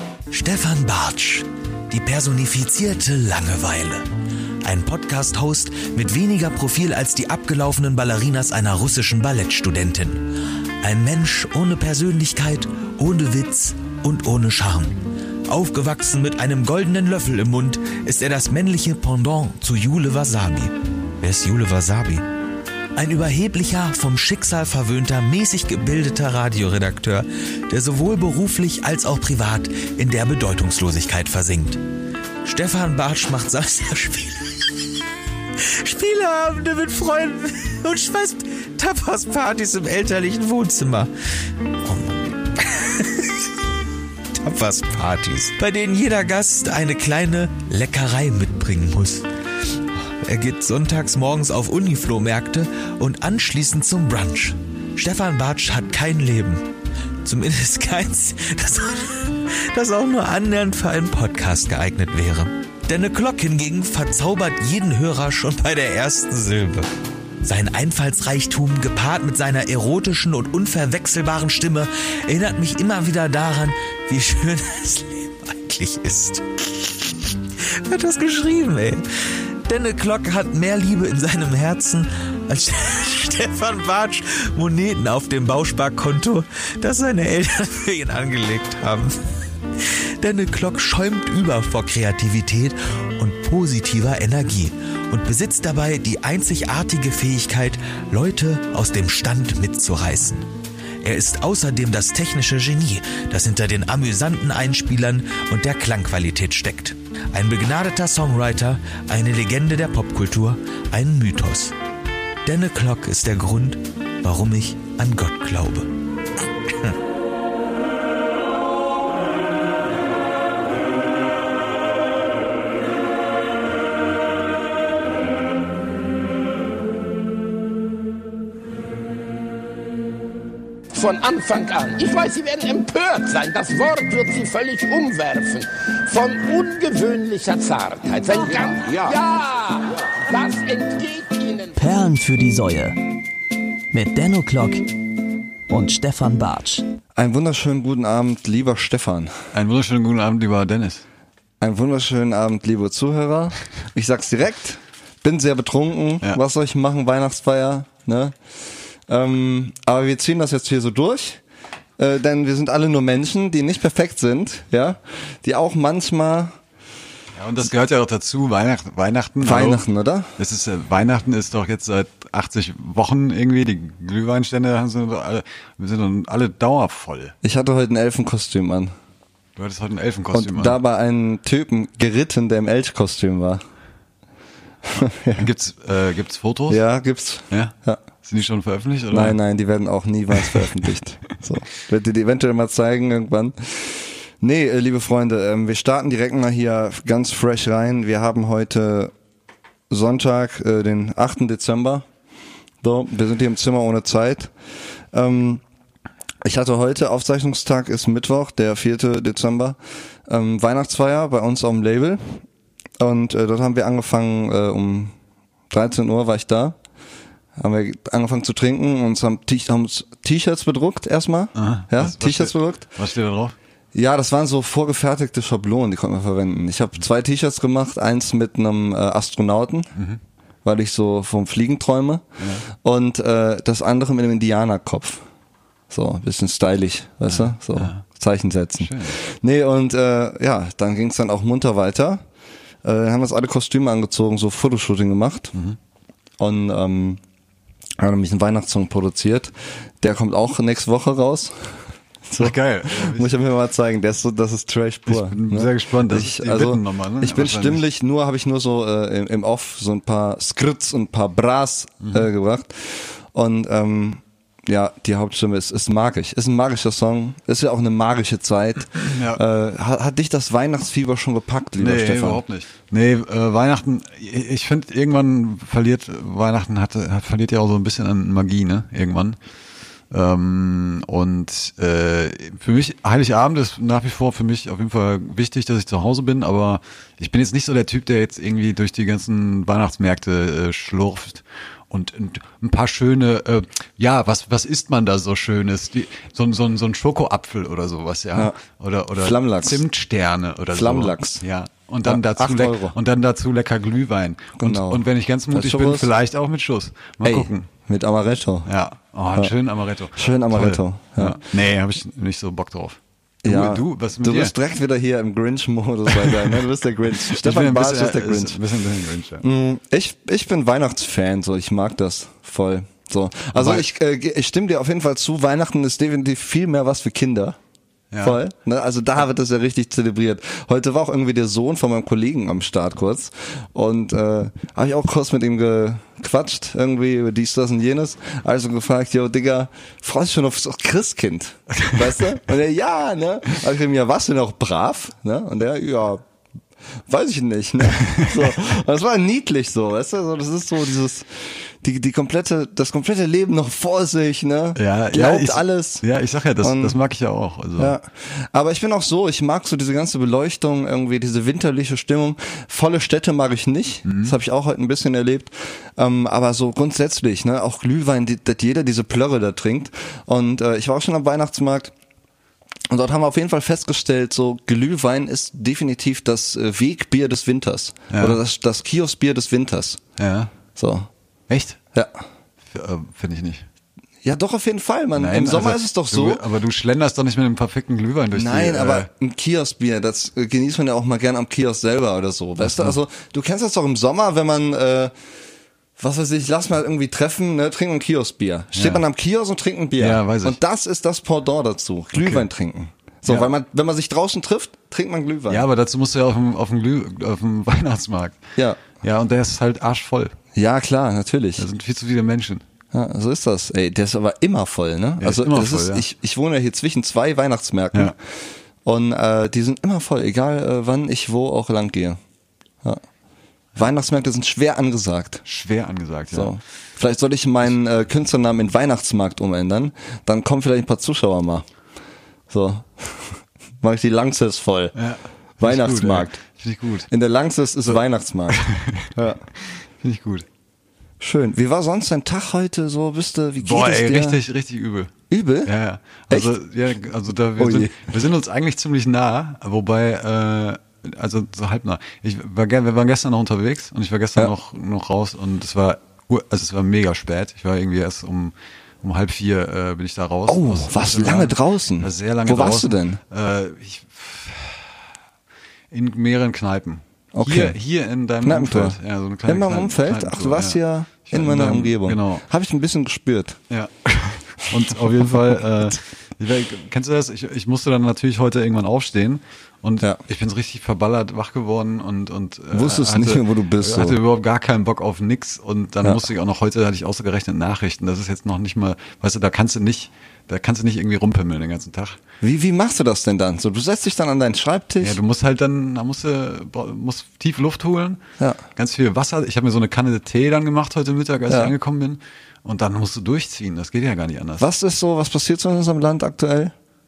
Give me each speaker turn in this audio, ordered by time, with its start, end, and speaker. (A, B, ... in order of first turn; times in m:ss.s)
0:00.3-0:04.1 A
0:04.6-0:22.2 A
0:23.0-0:31.8 A
0:32.4-0:34.7 A
0:35.6-0:41.1 A
0:41.8-0:43.5 A
0:44.4-0:49.3 A
0:50.0-1:06.9 A
1:07.4-1:19.0 A
1:19.6-1:29.2 A
1:30.2-1:40.5 A
1:41.0-1:51.8 A
1:52.4-1:55.9 A
1:56.7-1:57.0 A
2:10.9-2:21.8 B
2:21.8-2:23.0 C
2:23.9-2:24.9 C
2:25.7-2:26.8 C
2:27.2-2:29.3 D
2:29.5-2:31.0 E
2:31.6-2:38.3 D
2:39.1-2:41.4 D
2:42.0-2:46.6 D
2:47.4-2:49.8 E
2:49.4-2:50.3 D
2:50.4-2:57.3 E
2:57.4-2:58.9 D
2:59.6-3:00.8 E
3:00.3-3:03.6 D
3:04.9-3:05.5 D
3:05.4-3:06.8 E
3:06.7-3:08.0 D
3:07.5-3:09.4 E
3:09.1-3:19.1 D
3:19.9-3:22.1 D
3:22.8-3:24.5 D
3:25.1-3:25.6 D
3:26.4-3:32.4 D
3:33.0-3:35.1 D
3:35.7-3:36.8 D
3:37.6-3:42.8 D
3:41.6-3:43.5 E
3:43.9-3:49.9 D
3:50.6-3:55.2 D
3:52.4-3:52.7 E
3:55.9-4:02.2 D
3:57.3-3:58.0 E
3:58.8-3:59.2 E
4:02.8-4:05.5 D
4:06.4-4:07.2 D
4:08.0-4:32.4 D
4:12.4-4:13.4 E
4:15.1-4:17.8 E
4:29.0-4:29.4 E
4:31.8-4:39.4 E
4:40.1-5:07.7 E
4:59.1-4:59.8 D
5:00.7-5:01.4 D
5:02.0-5:03.0 D
5:04.6-5:06.1 D
5:07.2-5:08.7 D
5:08.6-5:14.5 E
5:10.1-5:11.4 D
5:13.4-5:18.6 D
5:16.1-5:16.5 E
5:17.2-5:19.4 E
5:19.4-5:27.6 D
5:23.5-5:23.8 E
5:28.1-5:28.4 E
5:28.2-5:46.2 D
5:47.1-5:56.0 D
5:54.8-5:58.0 E
5:56.6-5:57.0 D
5:57.8-6:11.9 D
6:04.0-6:04.4 E
6:12.9-6:20.0 D
6:18.1-6:18.4 E
6:20.2-6:20.5 E
6:20.8-6:21.1 D
6:21.5-6:21.8 E
6:22.7-6:23.6 E
6:24.2-6:26.4 D
6:25.2-6:29.1 E
6:28.3-6:35.1 D
6:32.6-6:33.0 E
6:36.0-6:45.6 D
6:38.7-6:39.0 E
6:40.0-6:40.6 E
6:42.2-6:42.4 E
6:45.5-6:48.4 E
6:48.6-6:48.8 D
6:49.0-6:50.3 E
6:50.5-6:51.6 D
6:51.6-6:52.6 E
6:52.9-6:58.1 D
6:55.2-6:56.0 E
6:58.8-7:02.2 D
7:03.8-7:05.4 D
7:05.4-7:06.5 E
7:06.3-7:11.6 D
7:12.5-7:14.9 D
7:15.0-7:17.1 E
7:15.6-7:16.4 D
7:17.1-7:18.6 D
7:18.5-7:19.1 E
7:19.1-7:19.4 D
7:19.6-7:20.4 E
7:21.2-7:24.4 D
7:23.6-7:25.1 E
7:25.3-7:25.7 D
7:25.6-7:44.9 E
7:26.3-7:26.5 D
7:27.6-7:28.1 D
7:40.5-7:43.2 D
7:45.9-7:52.4 E
7:47.3-7:47.8 D
7:48.4-7:53.6 D
7:53.7-8:12.2 E
8:02.7-8:04.2 D
8:12.4-8:15.2 D
8:15.0-8:18.2 E
8:18.8-8:24.7 E
8:21.5-8:21.7 D
8:24.6-8:26.7 D